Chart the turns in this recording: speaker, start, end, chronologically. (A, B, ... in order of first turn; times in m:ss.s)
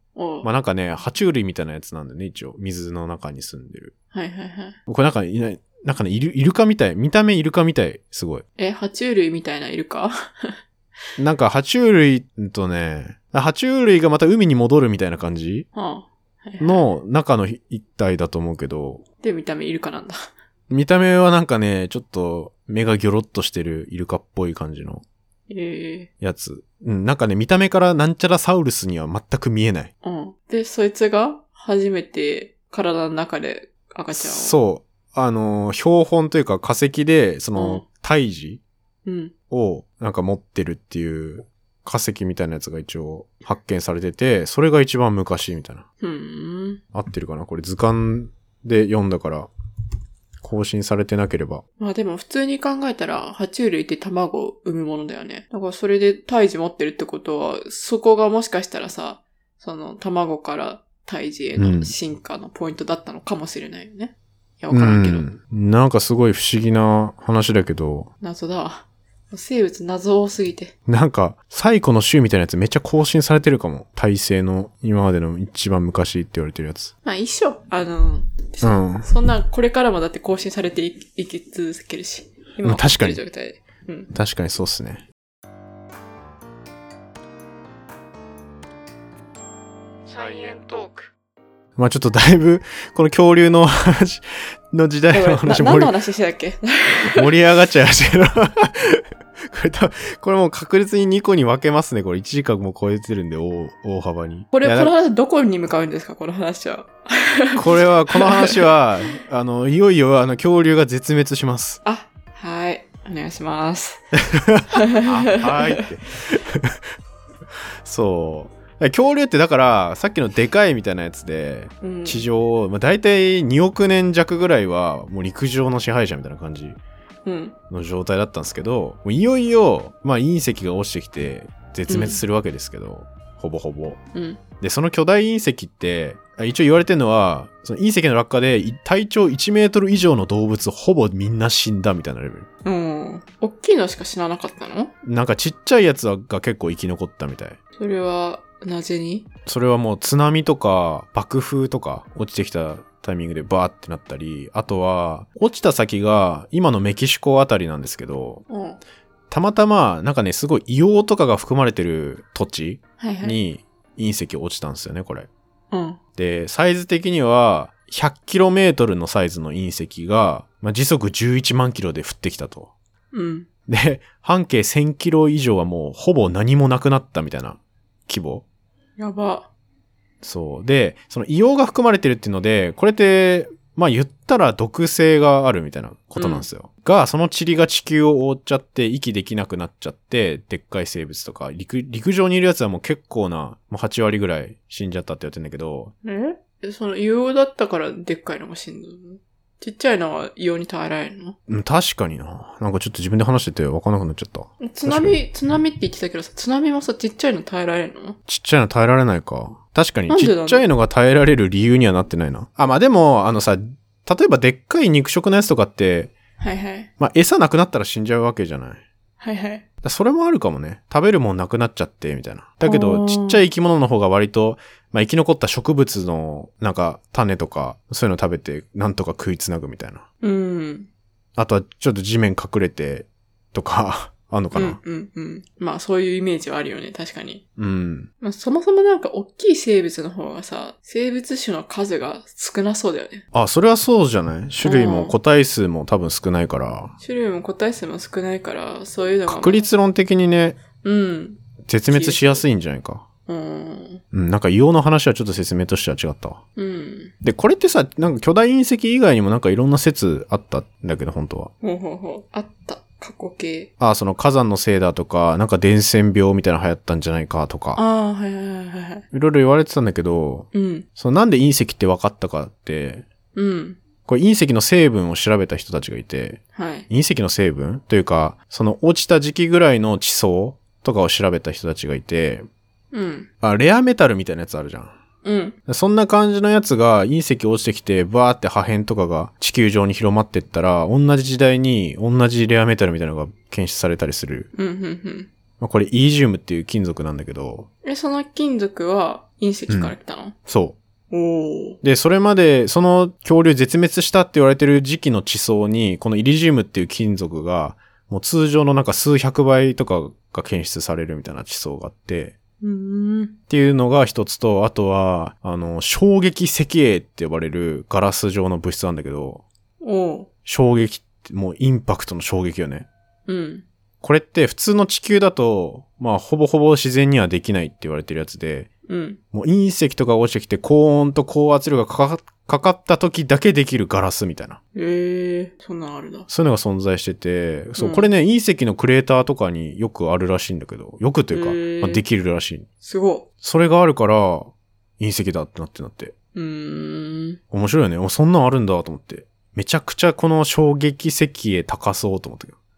0:00.1-0:00.5 A
0:00.4-0:03.9 B
0:04.1-0:04.8 A
0:04.9-0:08.4 B
0:08.6-0:10.5 A
0:11.2-0:15.7 B
0:15.7-0:16.9 A
0:16.6-0:19.0 B
0:19.2-0:20.3 A
0:20.7-0:25.0 B
0:25.5-0:26.1 A
0:26.2-0:29.9 B
0:30.0-0:34.6 A
0:34.1-0:38.6 B
0:37.6-0:37.8 A
0:39.0-0:39.3 A
0:39.5-0:45.8 B
0:46.0-0:46.8 A
0:46.9-0:49.5 B
0:50.4-0:51.6 B
0:51.8-1:05.3 A
1:01.6-1:01.9 B
1:04.7-1:08.1 B
1:08.2-1:10.7 A
1:10.9-1:16.9 B
1:17.0-1:24.1 A
1:18.6-1:19.1 B
1:22.6-1:23.2 B
1:24.1-1:25.0 B
1:30.1-1:31.0 B
1:31.8-1:35.9 B
1:35.1-1:37.3 A
1:37.0-1:44.9 B
1:44.5-1:48.6 A
1:47.6-1:51.8 B
1:51.8-1:54.0 A
1:54.3-1:56.8 B
1:54.7-1:55.8 A
1:57.8-2:06.8 B
2:01.8-2:02.2 A
2:07.2-2:07.5 A
2:07.7-2:14.0 B
2:11.9-2:12.2 A
2:14.1-2:14.4 A
2:14.6-2:22.5 B
2:22.6-2:24.9 A
2:25.0-2:27.6 B
2:27.8-2:29.3 A
2:29.5-2:38.4 B
2:38.5-2:38.8 A
2:39.3-2:45.3 B
2:43.0-2:43.4 A
2:45.7-2:46.0 A
2:46.2-2:52.7 B
2:53.1-2:53.5 A
2:53.7-2:58.4 B
2:59.0-2:59.5 A
3:00.2-3:15.9 B
3:06.2-3:06.5 A
3:16.0-3:21.4 A
3:21.5-3:25.2 B
3:24.6-3:28.2 A
3:28.3-3:36.1 B
3:30.1-3:30.7 A
3:36.4-3:36.9 A
3:37.0-3:38.8 B
3:39.2-3:39.6 A
3:39.8-3:50.0 B
3:42.6-3:43.4 A
3:50.2-3:50.9 A
3:51.4-3:54.8 B
3:54.5-3:57.4 A
3:57.6-3:58.1 B
3:58.2-4:03.2 A
4:03.3-4:06.9 B
4:04.6-4:05.2 A
4:07.0-4:09.6 A
4:09.3-4:10.6 B
4:10.8-4:12.4 A
4:11.6-4:13.0 B
4:13.3-4:14.0 A
4:14.1-4:16.4 B
4:16.6-4:17.1 A
4:17.2-4:21.5 B
4:21.6-4:23.7 A
4:23.8-4:27.8 B
4:27.8-4:29.0 A
4:29.1-4:33.0 B
4:30.5-4:30.9 A
4:33.4-4:33.8 A
4:34.1-4:42.5 B
4:36.5-4:36.9 A
4:42.9-4:43.3 A
4:43.4-4:44.9 B
4:45.2-4:45.6 A
4:45.7-4:54.5 B
4:54.5-4:55.3 A
4:55.6-4:57.7 B
4:57.8-5:00.4 A
4:59.7-5:00.0 B
5:00.5-5:00.8 B
5:01.1-5:01.8 A
5:01.8-5:12.3 B
5:12.6-5:13.4 A
5:13.5-5:19.4 B
5:19.8-5:20.3 A
5:20.5-5:22.9 B
5:23.3-5:23.6 A
5:24.0-5:28.7 B
5:28.9-5:29.2 A
5:29.3-5:34.6 B
5:34.8-5:36.3 A
5:36.3-5:42.7 B
5:37.8-5:38.1 A
5:41.3-5:42.0 A
5:42.8-5:43.3 A
5:43.4-5:46.1 B
5:46.4-5:47.4 A
5:47.5-5:52.6 B